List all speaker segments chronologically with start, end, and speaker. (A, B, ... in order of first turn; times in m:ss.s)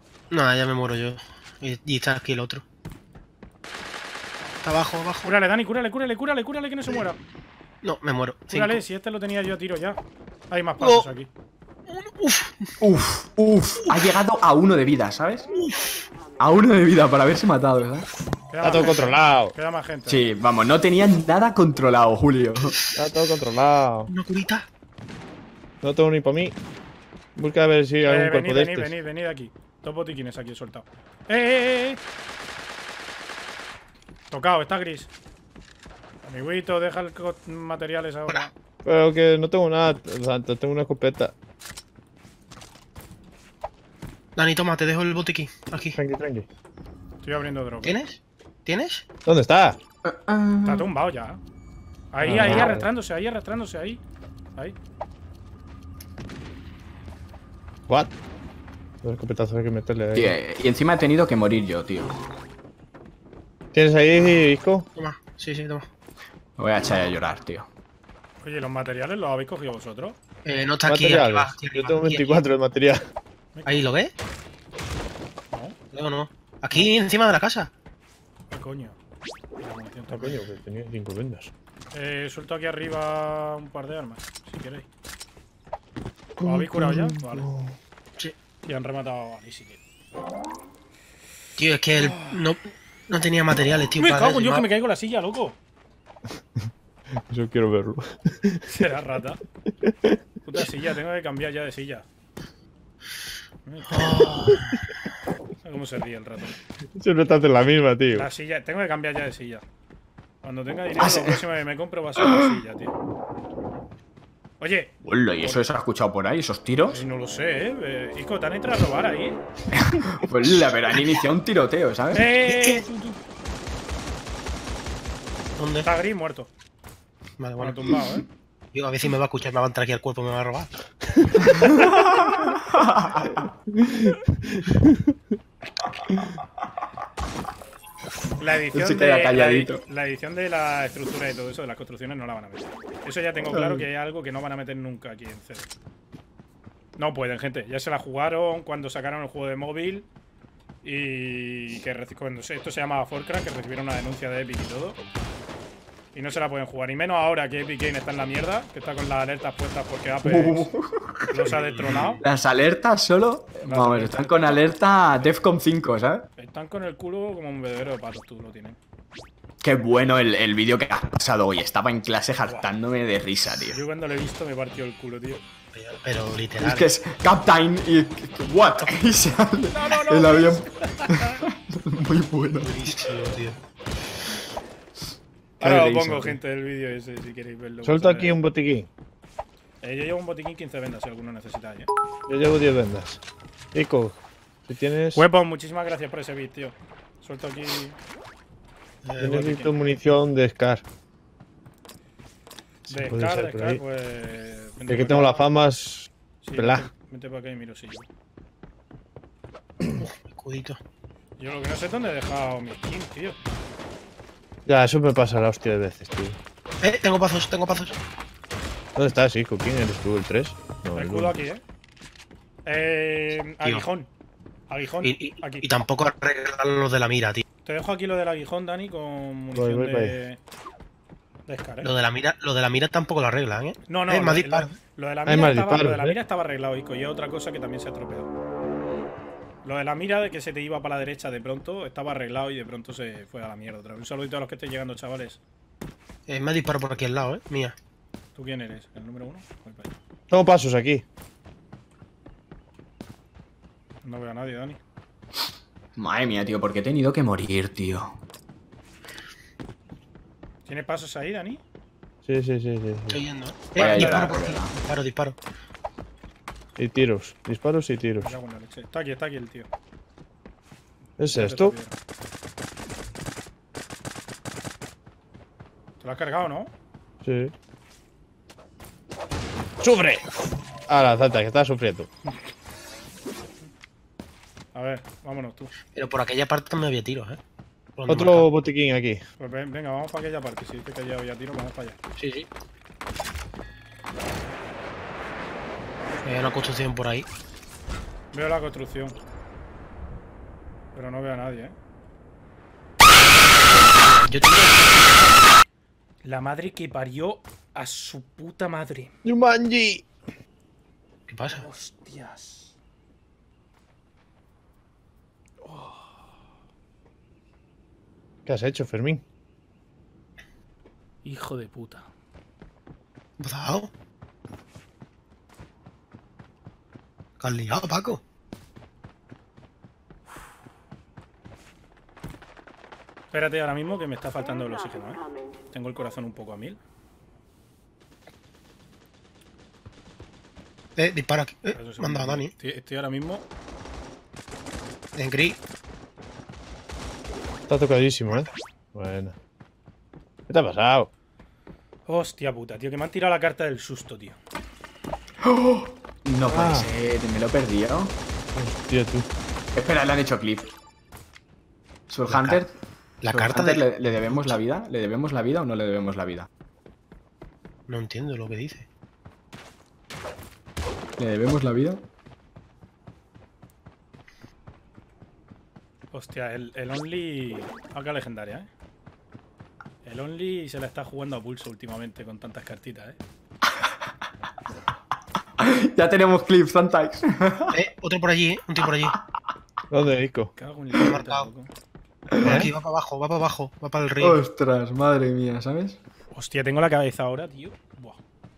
0:00.3-0:02.6 A
0:04.6-0:05.3 A
0:05.2-0:07.2 B
0:07.8-0:08.8 A
0:08.5-0:10.0 B
0:10.5-0:11.3 B
0:10.8-0:11.1 A
0:11.9-0:12.7 A
0:12.8-0:15.5 C
0:15.6-0:16.0 A
0:16.4-0:18.1 C
0:18.5-0:20.2 B
0:18.6-0:19.5 D
0:20.1-0:22.8 C
0:22.9-0:24.1 D
0:24.1-0:24.6 A
0:25.8-0:26.5 D
0:27.4-0:28.9 D
0:28.0-0:32.0 B
0:34.3-0:35.1 B
0:36.2-0:38.5 B
0:38.8-0:41.3 D
0:44.4-0:46.0 A
0:46.0-0:46.5 D
0:47.2-0:48.0 B
0:47.8-0:49.0 A
0:49.2-0:49.8 D
0:50.0-0:50.9 C
0:50.6-0:51.4 B
0:52.1-0:54.0 B
0:52.2-0:52.8 D
0:59.0-1:00.4 D
1:00.1-1:02.1 C
1:03.7-1:04.9 D
1:05.0-1:05.9 A
1:06.6-1:07.7 C
1:08.4-1:10.2 B
1:10.4-1:12.4 A
1:10.9-1:13.0 D
1:13.5-1:13.9 B
1:13.6-1:14.1 A
1:15.5-1:15.8 B
1:15.9-1:17.7 A
1:18.5-1:19.0 B
1:19.6-1:20.4 B
1:20.1-1:21.5 D
1:21.9-1:24.9 B
1:26.4-1:27.8 D
1:26.4-1:27.5 B
1:28.6-1:29.8 B
1:31.6-1:34.6 A
1:34.0-1:35.6 B
1:37.3-1:38.6 D
1:38.7-1:39.4 B
1:39.7-1:40.2 D
1:40.4-1:42.0 B
1:43.6-1:44.4 B
1:43.9-1:44.8 D
1:44.1-1:44.5 A
1:45.6-1:46.6 B
1:47.0-1:48.3 D
1:48.1-1:49.6 B
1:50.4-1:52.9 B
1:51.0-1:51.4 C
1:54.6-1:55.6 B
1:55.0-1:57.0 C
1:56.9-1:59.4 B
1:59.7-2:02.2 C
2:02.1-2:03.2 B
2:05.6-2:05.9 A
2:05.8-2:06.5 B
2:07.4-2:08.0 A
2:07.6-2:08.3 B
2:08.7-2:10.7 A
2:11.5-2:13.5 C
2:13.7-2:15.1 D
2:18.4-2:25.7 B
2:18.7-2:19.8 C
2:23.5-2:23.8 C
2:27.0-2:30.1 B
2:30.8-2:35.0 B
2:36.1-2:40.7 B
2:40.2-2:46.3 C
2:41.3-2:42.2 B
2:43.6-2:44.6 B
2:46.4-2:48.8 B
2:49.6-2:53.8 C
2:53.7-2:55.4 B
2:55.7-2:57.0 A
2:56.6-3:03.2 C
2:59.7-3:01.4 B
3:02.6-3:03.6 A
3:05.6-3:08.4 B
3:05.6-3:06.4 C
3:07.8-3:08.9 D
3:09.8-3:11.9 B
3:12.3-3:13.2 D
3:13.7-3:15.2 D
3:15.1-3:18.0 B
3:19.0-3:19.4 A
3:19.2-3:20.8 D
3:19.2-3:20.0 B
3:22.9-3:23.8 D
3:22.9-3:25.5 B
3:24.9-3:26.9 D
3:26.4-3:28.1 B
3:30.0-3:30.8 A
3:31.4-3:33.4 B
3:34.6-3:36.4 D
3:36.8-3:38.0 A
3:39.0-3:41.3 D
3:40.9-3:41.6 B
3:42.6-3:44.1 B
3:44.7-3:45.7 B
3:45.0-3:47.4 A
3:47.6-3:50.4 B
3:49.5-3:50.2 D
3:51.5-3:51.9 B
3:51.8-3:54.8 A
3:53.9-3:58.3 B
3:55.2-3:56.2 D
3:59.6-4:05.4 B
4:06.3-4:07.8 A
4:08.3-4:09.9 B
4:10.3-4:11.0 D
4:14.0-4:14.8 B
4:16.0-4:18.2 C
4:20.6-4:21.6 B
4:22.2-4:23.2 D
4:23.1-4:25.4 A
4:23.8-4:24.7 C
4:26.8-4:28.3 D
4:28.2-4:29.7 B
4:31.2-4:31.7 D
4:31.3-4:32.0 B
4:36.0-4:36.7 B
4:37.2-4:37.5 D
4:39.8-4:40.2 D
4:40.9-4:42.1 D
4:44.7-4:45.7 B
4:45.9-4:47.4 A
4:48.0-4:48.5 A
4:48.1-4:49.2 D
4:49.4-4:52.0 B
4:52.2-4:52.5 A
4:56.2-4:57.3 A
4:58.3-4:59.2 B
5:00.9-5:01.8 B
5:03.3-5:05.1 A
5:06.2-5:09.1 B
5:09.2-5:10.1 D
5:11.3-5:11.6 A
5:11.6-5:12.8 B
5:15.6-5:16.2 B
5:18.4-5:19.2 D
5:21.2-5:22.1 B
5:23.4-5:23.9 A
5:27.4-5:28.2 A
5:33.3-5:36.8 B
5:41.0-5:42.5 A
5:41.7-5:43.4 B
5:45.2-5:45.6 A
5:47.7-5:49.3 D
5:48.3-5:48.6 A
5:50.5-5:51.1 D
5:52.1-5:54.4 B
5:55.4-5:58.2 C
5:56.5-5:56.9 D
5:58.5-5:59.3 D
5:59.7-6:00.7 C
6:02.1-6:02.8 C
6:02.3-6:02.6 A
6:03.2-6:04.6 A
6:03.3-6:06.5 C
6:07.9-6:08.8 A
6:11.2-6:12.0 C
6:16.1-6:18.7 B
6:20.0-6:23.2 B
6:25.6-6:27.8 C
6:27.7-6:29.2 A
6:29.9-6:30.5 D
6:30.6-6:31.7 B
6:31.0-6:31.5 A
6:32.3-6:32.6 C
6:32.4-6:34.4 A
6:32.4-6:32.7 D
6:34.2-6:36.0 C
6:36.3-6:38.2 B